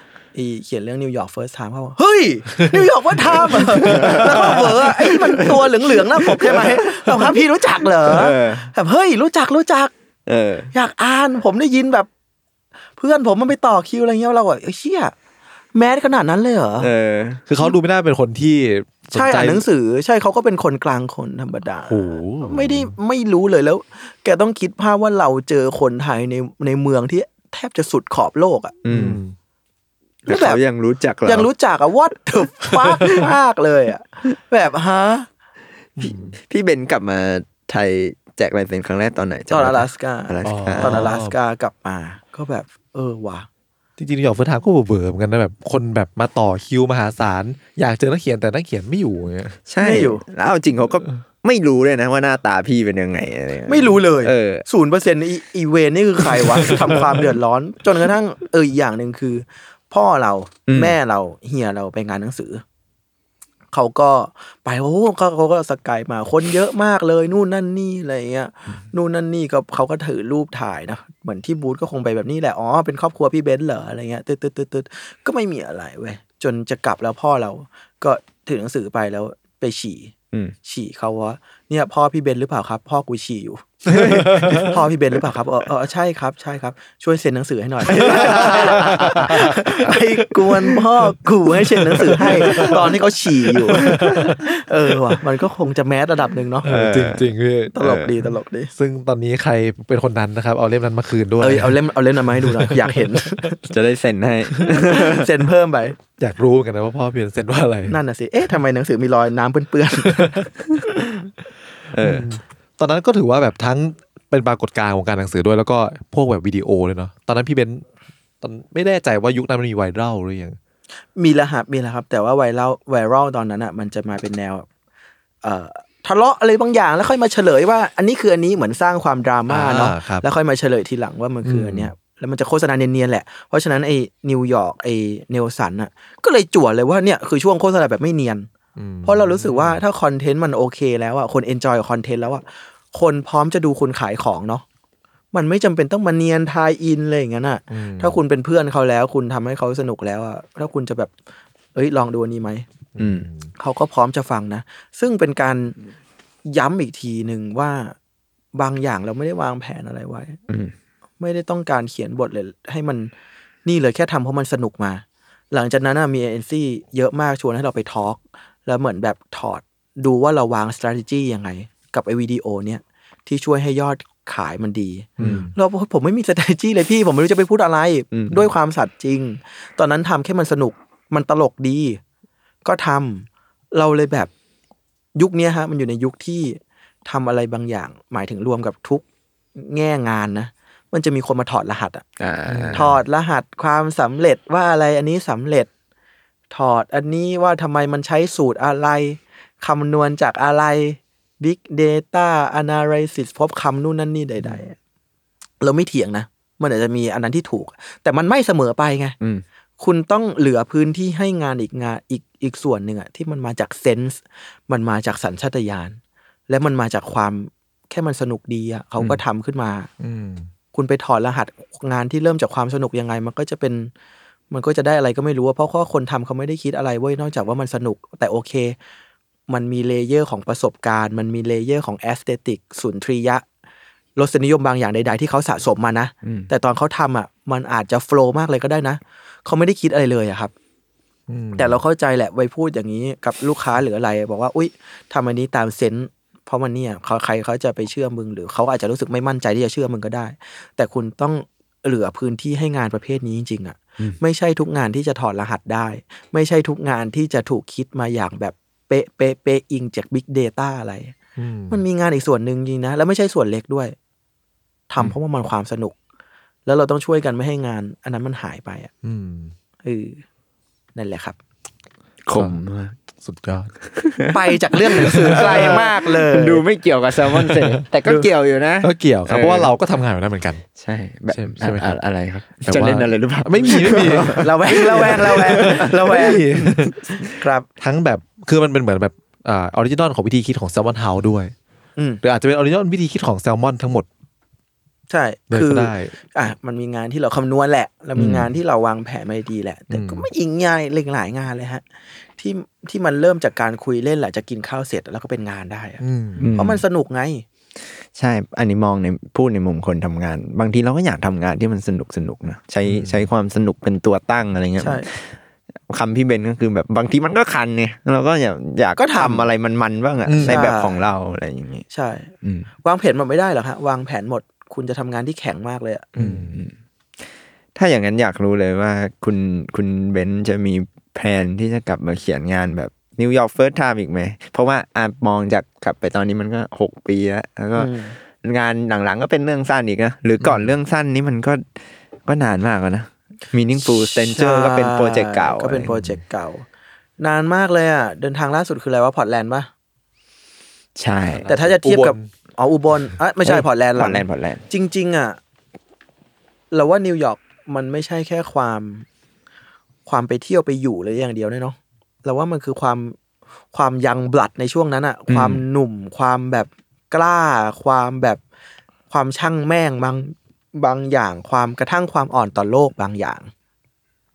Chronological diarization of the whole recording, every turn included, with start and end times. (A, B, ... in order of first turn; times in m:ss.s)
0:00.3-0:09.9 A
0:03.6-0:04.2 B
0:03.8-0:07.1 C
0:08.0-0:08.7 C
0:10.3-0:10.7 C
0:10.7-0:12.1 A
0:13.0-0:15.1 A
0:15.7-0:16.9 A
0:16.8-0:17.4 C
0:17.5-0:19.6 B
0:19.1-0:28.7 A
0:21.9-0:22.9 B
0:28.8-0:29.2 C
0:28.9-0:29.3 B
0:30.2-0:31.5 C
0:30.3-0:30.6 A
0:31.2-0:35.3 A
0:36.0-0:36.4 B
0:36.0-0:41.1 C
0:39.5-0:43.5 A
0:40.4-0:41.4 B
0:44.0-0:49.6 B
0:49.7-0:54.6 C
0:49.8-0:50.2 A
0:53.7-1:02.6 A
1:00.7-1:01.0 C
1:03.7-1:20.1 A
1:20.6-1:36.7 A
1:23.9-1:24.8 C
1:27.9-1:29.4 C
1:28.2-1:29.5 B
1:32.1-1:32.8 B
1:33.6-1:34.4 B
1:33.9-1:34.3 C
1:36.6-1:37.2 C
1:36.6-1:37.8 B
1:37.7-1:38.7 A
1:37.8-1:38.1 C
1:38.7-1:41.8 B
1:41.4-1:43.6 A
1:42.3-1:43.2 B
1:43.6-1:45.3 C
1:44.7-1:46.0 A
1:46.2-1:48.0 B
1:47.9-1:51.0 A
1:50.0-1:50.4 B
1:51.9-1:52.3 C
1:52.0-1:57.8 B
1:58.4-2:00.6 B
2:01.2-2:04.6 A
2:05.4-2:18.5 A
2:09.5-2:10.2 B
2:11.4-2:11.9 B
2:18.8-2:19.8 B
2:19.0-2:24.6 A
2:25.3-2:31.1 A
2:27.7-2:28.2 B
2:31.7-2:32.6 A
2:33.0-2:33.5 B
2:33.0-2:33.3 C
2:33.6-2:35.8 A
2:36.4-2:38.0 A
2:38.5-2:40.4 A
2:40.5-2:40.7 C
2:41.2-2:43.1 A
2:43.6-3:02.0 A
2:55.2-2:55.5 B
2:58.1-2:58.5 C
3:02.6-3:04.3 A
3:05.2-3:12.0 A
3:12.2-3:12.9 C
3:12.5-3:13.0 B
3:12.7-3:15.7 A
3:16.5-3:24.7 A
3:25.6-3:29.2 A
3:29.8-3:36.0 A
3:36.5-3:39.9 A
3:40.0-3:40.5 B
3:40.7-3:43.9 A
3:44.5-3:48.8 A
3:49.5-3:53.4 A
3:54.2-4:00.5 A
3:56.2-3:56.5 C
4:01.3-4:01.8 B
4:01.6-4:21.2 A
4:21.4-4:21.8 B
4:21.7-4:23.9 A
4:24.9-4:25.9 A
4:26.6-4:28.9 A
4:29.0-4:29.5 B
4:29.8-4:30.2 A
4:31.0-4:31.4 A
4:32.3-4:33.0 C
4:33.2-4:33.7 B
4:34.0-4:34.3 C
4:34.3-4:36.6 A
4:35.0-4:39.7 C
4:35.1-4:35.8 B
4:37.3-4:37.8 B
4:38.8-4:40.6 B
4:40.8-4:46.4 C
4:41.3-4:42.0 B
4:42.6-4:47.0 B
4:44.0-4:46.4 A
4:47.2-4:47.6 A
4:47.8-4:51.5 B
4:52.2-4:54.1 B
4:55.1-5:01.8 A
4:55.5-4:56.1 B
4:59.9-5:00.3 B
5:02.4-5:07.4 A
5:06.0-5:06.5 B
5:06.4-5:06.8 C
5:08.1-5:15.3 C
5:12.8-5:13.2 B
5:14.8-5:15.1 A
5:15.9-5:21.8 C
5:19.0-5:19.4 A
5:20.2-5:20.7 B
5:20.5-5:21.0 A
5:21.9-5:22.3 A
5:22.4-5:22.7 C
5:22.8-5:26.1 A
5:26.2-5:26.7 C
5:26.2-5:26.6 B
5:27.7-5:41.6 C
5:37.8-5:38.2 A
5:40.4-5:40.7 B
5:42.2-5:45.9 C
5:43.8-5:46.6 A
5:47.2-5:49.7 A
5:51.0-5:51.5 C
5:51.3-5:52.3 B
5:51.5-5:55.4 A
5:53.4-5:54.6 C
5:56.7-5:59.0 A
6:00.0-6:03.2 A
6:03.7-6:08.4 A
6:09.1-6:13.5 A